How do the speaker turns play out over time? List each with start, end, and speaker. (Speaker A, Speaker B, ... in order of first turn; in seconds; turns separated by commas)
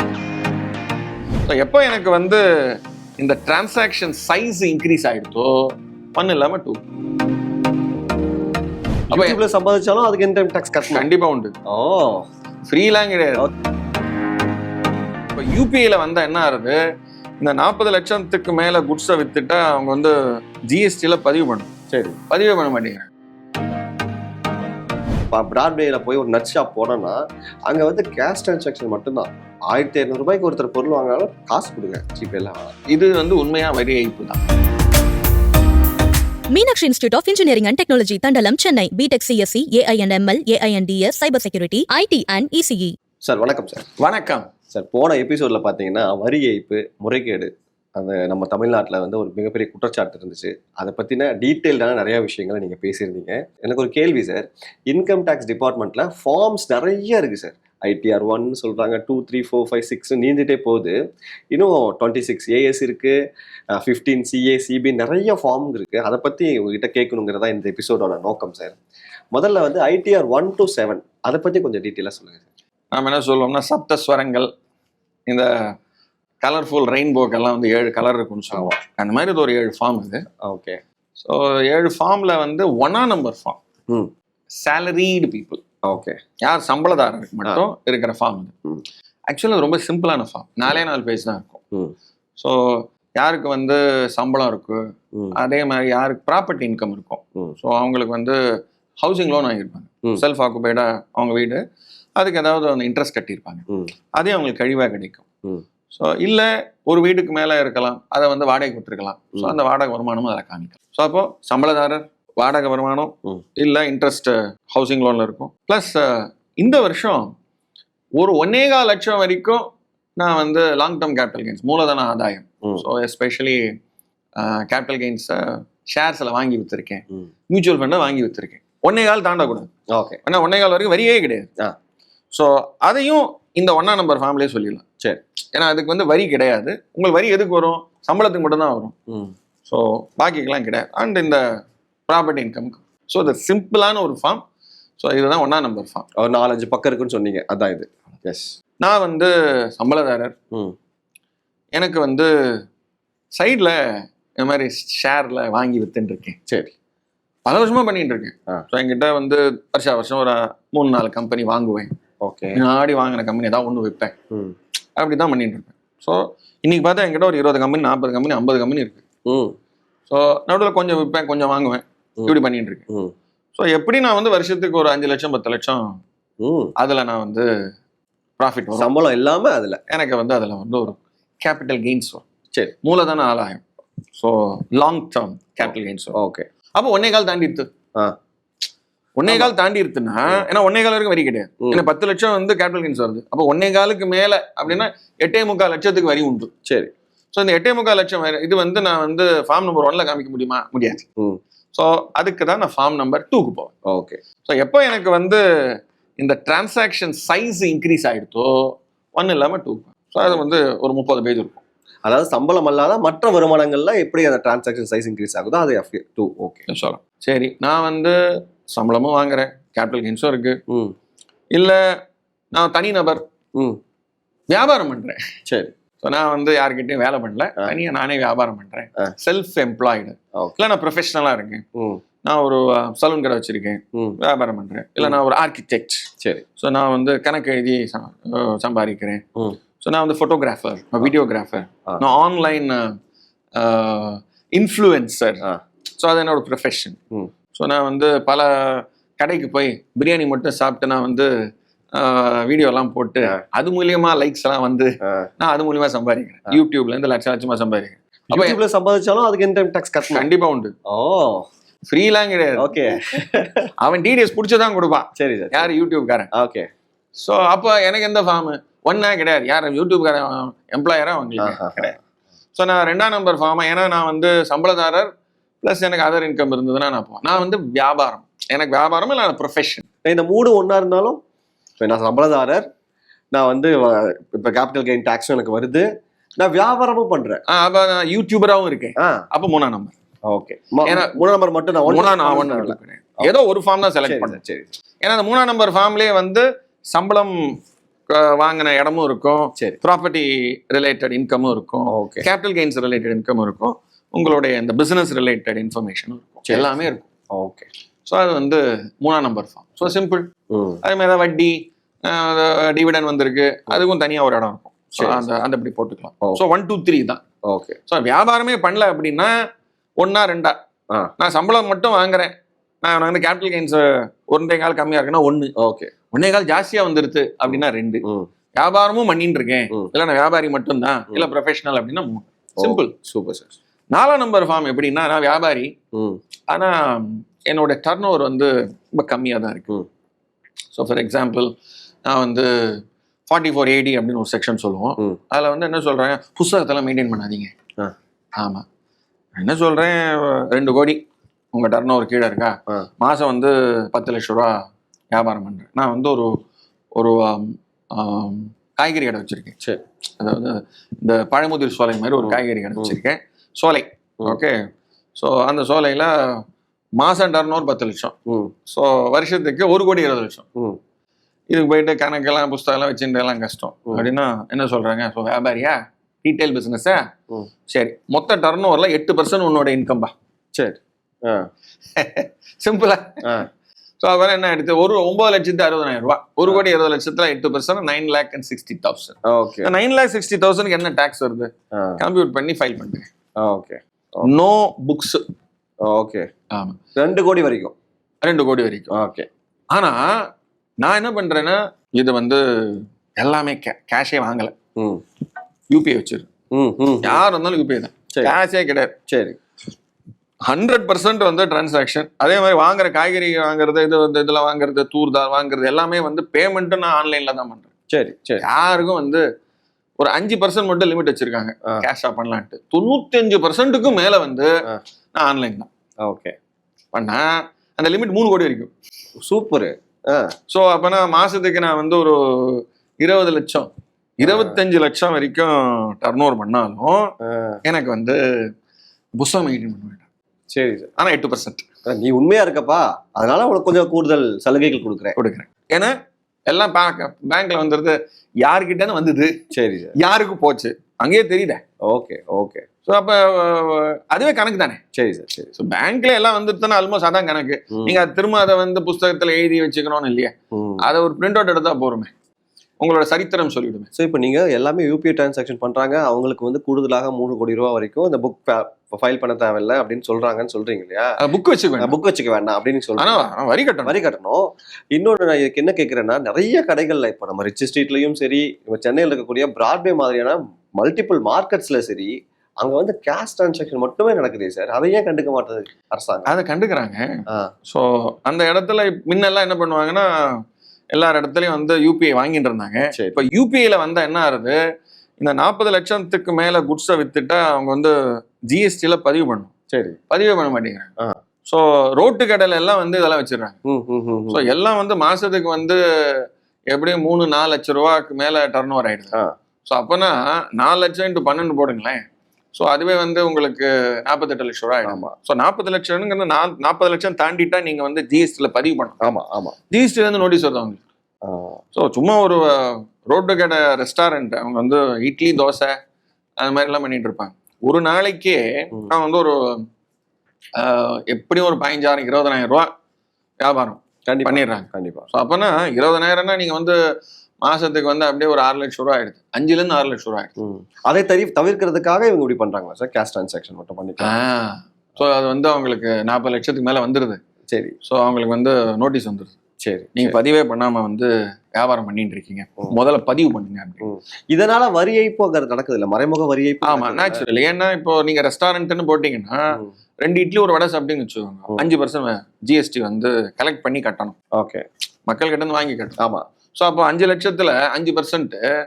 Speaker A: 1.5-2.4, Speaker A: 3.2-6.8, Speaker B: 9.1-11.1, Speaker A: 9.1-9.4, Speaker A: 10.9-11.5, Speaker B: 11.7-12.3, Speaker A: 12.7-13.5, Speaker A: 15.3-16.8, Speaker A: 17.4-20.1, Speaker A: 20.7-21.7, Speaker B: 21.9-22.2, Speaker A: 22.3-23.1, Speaker B: 25.3-32.7, Speaker A: 32.9-34.4, Speaker C: 36.5-43.0, Speaker B: 43.2-43.9, Speaker A: 44.0-44.5, Speaker B: 44.7-61.0, Speaker B: 61.5-63.1, Speaker B: 63.7-68.8, Speaker B: 69.3-72.5, Speaker A: 72.9-74.5, Speaker A: 76.4-80.2, Speaker B: 78.5-78.8, Speaker B: 80.4-80.8, Speaker A: 81.2-83.6, Speaker A: 84.5-85.6, Speaker B: 85.8-86.2, Speaker A: 86.4-88.5, Speaker A: 89.3-91.6, Speaker A: 92.4-94.8, Speaker A: 95.3-98.4, Speaker A: 99.0-101.6, Speaker A: 102.2-105.2, Speaker A: 105.9-117.3, Speaker A: 118.2-119.6, Speaker A: 120.2-123.7, Speaker A: 124.4-129.7, Speaker B: 129.9-130.2, Speaker A: 130.2-131.5, Speaker A: 132.3-134.8, Speaker A: 135.5-138.9, Speaker B: 139.1-139.3, Speaker A: 139.6-141.4, Speaker A: 142.1-144.4, Speaker A: 145.0-146.1, Speaker B: 146.2-148.5, Speaker A: 148.8-150.3, Speaker A: 151.7-152.3, Speaker A: 153.3-153.8, Speaker A: 154.4-156.4, Speaker B: 156.5-156.7, Speaker A: 157.4-161.9, Speaker B: 162.2-162.6, Speaker A: 162.5-164.1, Speaker A: 165.0-169.0, Speaker B: 169.3-169.6, Speaker A: 170.1-172.8, Speaker A: 173.5-176.0, Speaker B: 176.4-176.7, Speaker A: 176.8-177.4, Speaker A: 178.4-178.9, Speaker B: 178.8-179.8, Speaker A: 179.9-182.2, Speaker A: 182.8-186.2, Speaker B: 186.1-186.4, Speaker A: 186.8-187.7, Speaker A: 189.2-196.5, Speaker B: 189.3-189.5, Speaker B: 196.7-196.9, Speaker A: 197.3-201.1, Speaker A: 201.7-203.7, Speaker B: 203.8-204.2, Speaker A: 204.4-205.4, Speaker A: 206.2-211.6, Speaker B: 212.0-216.7, Speaker A: 216.7-220.6, Speaker B: 220.7-220.9, Speaker A: 221.5-221.8, Speaker A: 222.5-223.2, Speaker A: 224.5-225.2, Speaker B: 225.5-225.7, Speaker A: 226.0-231.6, Speaker B: 231.7-232.0, Speaker A: 232.2-236.1, Speaker A: 236.6-239.2, Speaker A: 239.8-242.9, Speaker A: 243.6-245.4, Speaker A: 246.0-247.0, Speaker A: 247.5-251.3, Speaker A: 251.9-258.6, Speaker B: 255.0-255.3, Speaker B: 258.3-260.3, Speaker A: 260.1-260.7, Speaker B: 260.9-261.5, Speaker A: 261.9-263.2, Speaker B: 262.6-263.7, Speaker A: 263.8-266.3, Speaker B: 265.1-265.7, Speaker B: 266.3-266.7, Speaker A: 267.2-271.9, Speaker B: 271.4-271.9, Speaker A: 272.5-275.1, Speaker A: 275.6-279.9, Speaker B: 280.0-281.2, Speaker B: 281.8-282.6, Speaker B: 283.3-285.9, Speaker B: 286.4-287.4, Speaker A: 287.5-289.9, Speaker B: 289.0-289.2, Speaker B: 290.3-293.3, Speaker A: 290.8-291.1, Speaker A: 291.9-294.4, Speaker B: 294.0-294.7, Speaker A: 295.0-297.5, Speaker A: 298.1-307.1, Speaker B: 301.9-302.3, Speaker B: 307.3-307.7, Speaker A: 308.1-310.3, Speaker B: 310.5-310.8, Speaker A: 310.8-317.2, Speaker B: 315.0-315.3, Speaker B: 317.4-317.8, Speaker A: 317.9-319.3, Speaker A: 320.0-320.5, Speaker A: 321.2-322.3, Speaker A: 322.8-325.5, Speaker B: 325.6-325.9, Speaker A: 326.1-328.0, Speaker B: 327.5-328.3, Speaker A: 328.6-332.9, Speaker B: 332.6-333.5, Speaker A: 333.9-335.7, Speaker B: 335.9-336.2, Speaker A: 336.5-339.7, Speaker A: 340.7-341.5, Speaker A: 342.1-342.5, Speaker A: 343.3-347.5, Speaker A: 348.4-348.6, Speaker A: 349.4-351.0, Speaker A: 351.5-354.5, Speaker A: 355.1-356.3, Speaker A: 356.9-359.6, Speaker A: 360.2-364.6, Speaker B: 362.2-362.9, Speaker A: 365.1-366.4, Speaker A: 367.0-368.1, Speaker B: 368.2-368.5, Speaker A: 368.7-370.4, Speaker A: 371.5-377.0, Speaker A: 377.7-380.1, Speaker B: 380.5-381.5, Speaker A: 381.9-383.2, Speaker A: 384.0-393.1, Speaker B: 389.2-389.7, Speaker B: 391.7-392.0, Speaker B: 393.4-394.3, Speaker A: 394.2-395.2, Speaker B: 395.8-396.3, Speaker A: 396.5-396.8, Speaker B: 396.9-397.7, Speaker A: 398.2-398.9, Speaker B: 398.9-399.3, Speaker A: 399.7-400.3, Speaker A: 400.8-404.5, Speaker B: 404.8-405.0, Speaker A: 405.7-406.3, Speaker B: 406.5-407.2, Speaker A: 407.0-408.9, Speaker B: 409.1-409.4, Speaker A: 410.4-417.7, Speaker B: 417.9-418.4, Speaker A: 418.4-419.2, Speaker A: 420.0-424.5, Speaker A: 425.1-425.7, Speaker B: 426.0-426.4, Speaker A: 426.9-428.7, Speaker B: 429.2-430.3, Speaker A: 430.5-433.7, Speaker A: 434.2-437.1, Speaker B: 434.2-434.6, Speaker B: 437.2-437.6, Speaker A: 437.6-438.2, Speaker A: 439.2-440.1, Speaker B: 440.5-440.9, Speaker A: 441.0-441.6, Speaker B: 441.9-445.1, Speaker A: 445.1-445.9, Speaker A: 446.5-449.3, Speaker B: 449.5-449.9, Speaker A: 450.0-451.6, Speaker B: 451.9-452.6, Speaker A: 452.8-454.8, Speaker B: 454.9-455.5, Speaker A: 455.5-462.1, Speaker B: 460.5-460.9, Speaker A: 462.8-463.9, Speaker B: 463.9-471.2, Speaker A: 471.2-471.9, Speaker B: 471.8-473.2, Speaker A: 473.0-473.9, Speaker B: 473.8-486.3, Speaker A: 486.3-487.0, Speaker A: 487.7-490.1, Speaker A: 490.9-494.6, Speaker B: 492.9-493.2, Speaker A: 495.2-497.9, Speaker A: 498.5-499.5, Speaker B: 499.7-500.0, Speaker A: 500.1-500.9, Speaker A: 501.4-503.6, Speaker B: 503.6-504.5, Speaker A: 504.3-512.0, Speaker A: 512.5-519.0, Speaker B: 514.9-515.1, Speaker B: 519.0-519.5, Speaker A: 519.7-520.8, Speaker B: 521.2-521.6, Speaker A: 521.7-525.7, Speaker A: 526.4-529.6, Speaker A: 530.6-532.7, Speaker A: 533.4-536.8, Speaker B: 534.1-535.1, Speaker A: 537.4-540.3, Speaker B: 540.4-544.1, Speaker A: 544.0-547.2, Speaker A: 547.8-549.3, Speaker B: 549.6-550.2, Speaker A: 550.0-553.9, Speaker B: 553.8-557.2, Speaker A: 556.6-564.1, Speaker B: 564.3-564.6, Speaker A: 565.1-566.0, Speaker A: 566.5-568.4